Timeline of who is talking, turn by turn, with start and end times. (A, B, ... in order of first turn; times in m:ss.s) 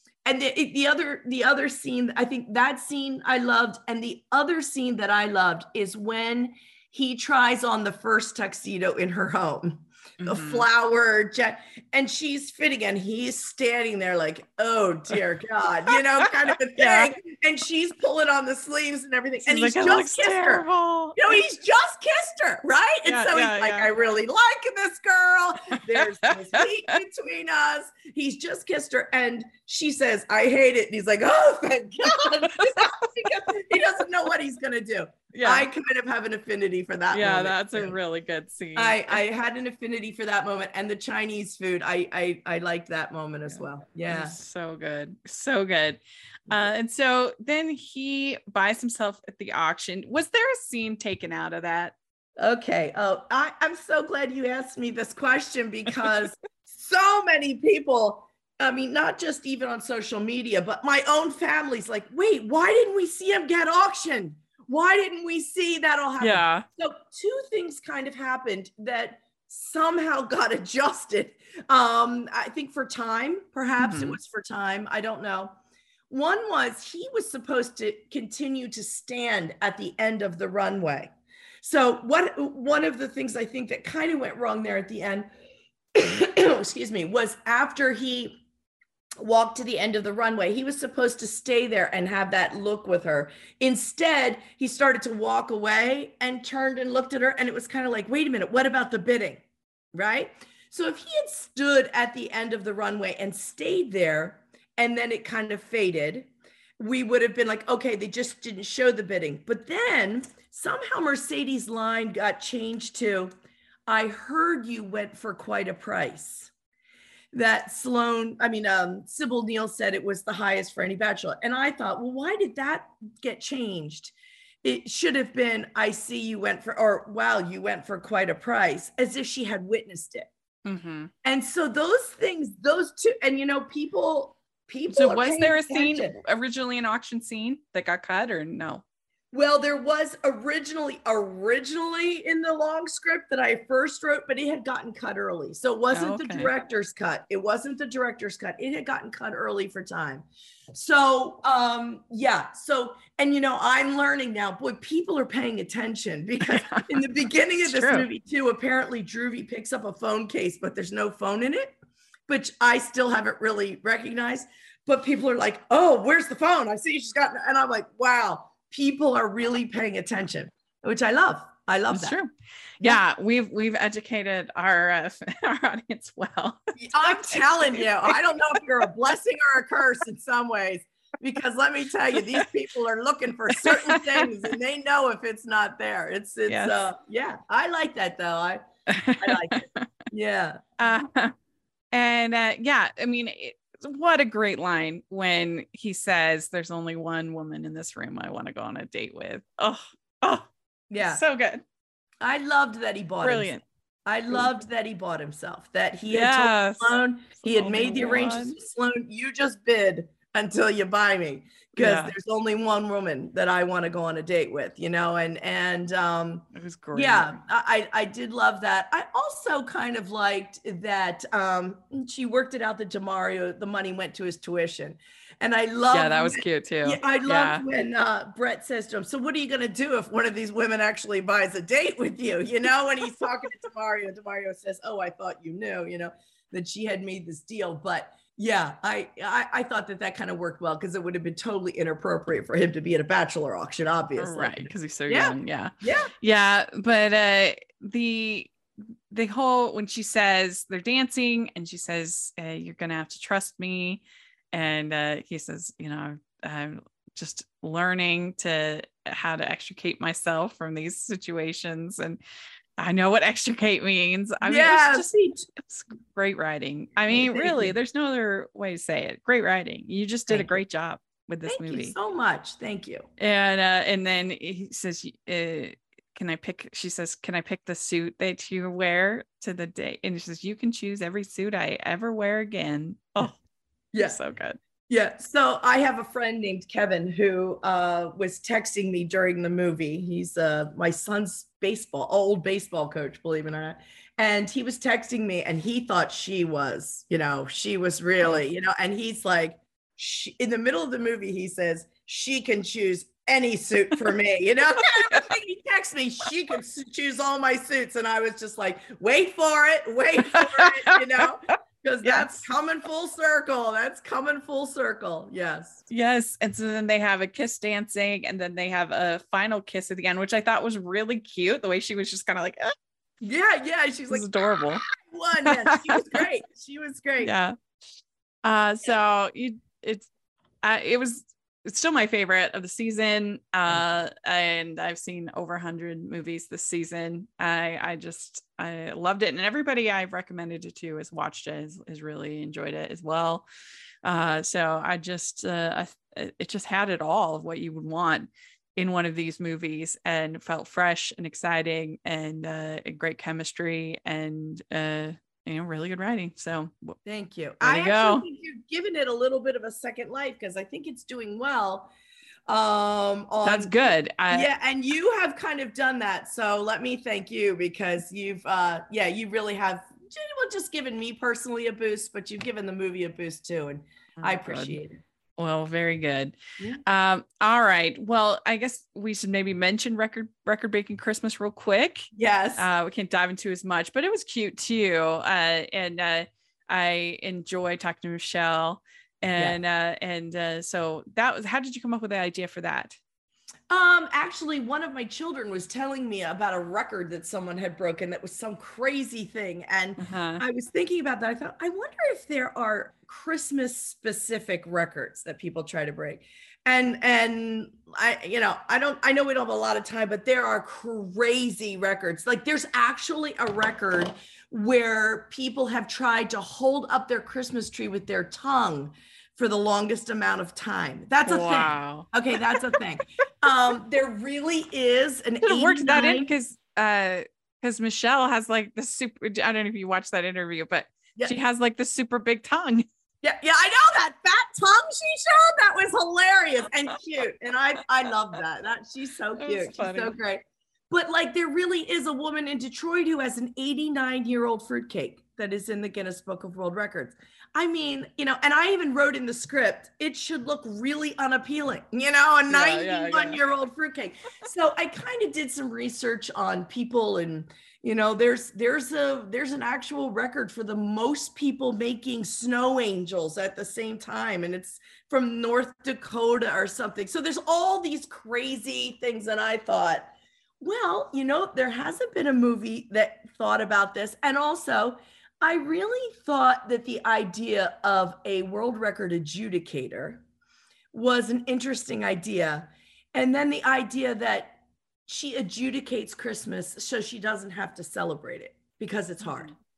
0:00.2-0:38.0 A
0:10.2-0:10.6 B
0:16.8-0:17.1 B
0:19.4-0:21.2 B
0:23.0-0:23.9 B
0:26.3-0:26.6 B
0:32.6-0:32.9 B
0:35.3-0:35.7 B
0:37.1-0:39.2 B
0:38.7-0:44.4 A
0:43.6-0:51.9 B
0:52.4-1:15.5 A
1:06.2-1:06.6 B
1:13.8-1:14.2 B
1:16.1-1:25.3 A
1:25.9-1:28.4 A
1:29.2-1:39.4 A
1:39.9-1:46.3 A
1:46.8-1:53.3 A
1:53.9-1:56.5 A
1:57.3-2:04.1 A
2:04.6-2:10.3 A
2:10.6-2:11.1 B
2:11.2-2:16.2 A
2:14.9-2:18.8 B
2:19.3-2:41.7 A
2:25.9-2:26.5 B
2:36.4-2:37.0 B
2:37.6-2:38.1 B
2:42.3-2:52.2 A
2:51.9-2:52.3 B
2:52.8-2:57.9 B
2:56.8-3:08.6 A
3:03.6-3:04.3 B
3:06.5-3:06.8 B
3:08.9-3:09.9 B
3:09.2-3:10.6 A
3:10.8-3:11.3 B
3:11.9-3:20.5 B
3:20.9-3:21.2 A
3:21.0-3:21.6 B
3:22.2-3:23.5 A
3:23.2-3:23.6 B
3:24.0-4:06.1 A
3:26.1-3:28.6 B
3:31.8-3:32.1 B
3:36.5-3:37.4 B
3:45.9-3:47.6 B
4:04.2-4:08.5 B
4:09.1-4:22.2 B
4:22.8-4:31.9 B
4:24.4-4:25.5 A
4:27.1-4:27.7 A
4:30.3-4:30.6 A
4:31.5-4:33.1 A
4:33.2-4:43.3 B
4:43.9-4:44.2 A
4:44.0-4:44.6 B
4:44.9-5:15.8 A
5:04.9-5:05.3 B
5:10.3-5:11.0 B
5:12.0-5:12.4 B
5:15.9-5:22.7 B
5:23.2-5:27.3 A
5:24.1-5:24.8 B
5:25.4-5:26.2 B
5:27.2-5:27.6 B
5:28.4-5:30.1 B
5:30.6-5:43.4 B
5:44.0-5:57.0 B
5:57.0-6:01.9 A
5:57.6-5:58.2 B
6:02.5-6:03.7 A
6:03.4-6:04.5 B
6:04.3-6:15.0 A
6:14.2-6:14.8 B
6:15.4-6:33.0 B
6:22.1-6:22.7 A
6:33.7-7:06.3 A
6:40.0-6:40.4 B
7:01.2-7:02.6 B
7:05.4-7:12.8 B
7:13.2-8:00.2 A
7:19.4-7:20.1 B
7:32.5-7:33.4 B
8:00.9-8:09.5 A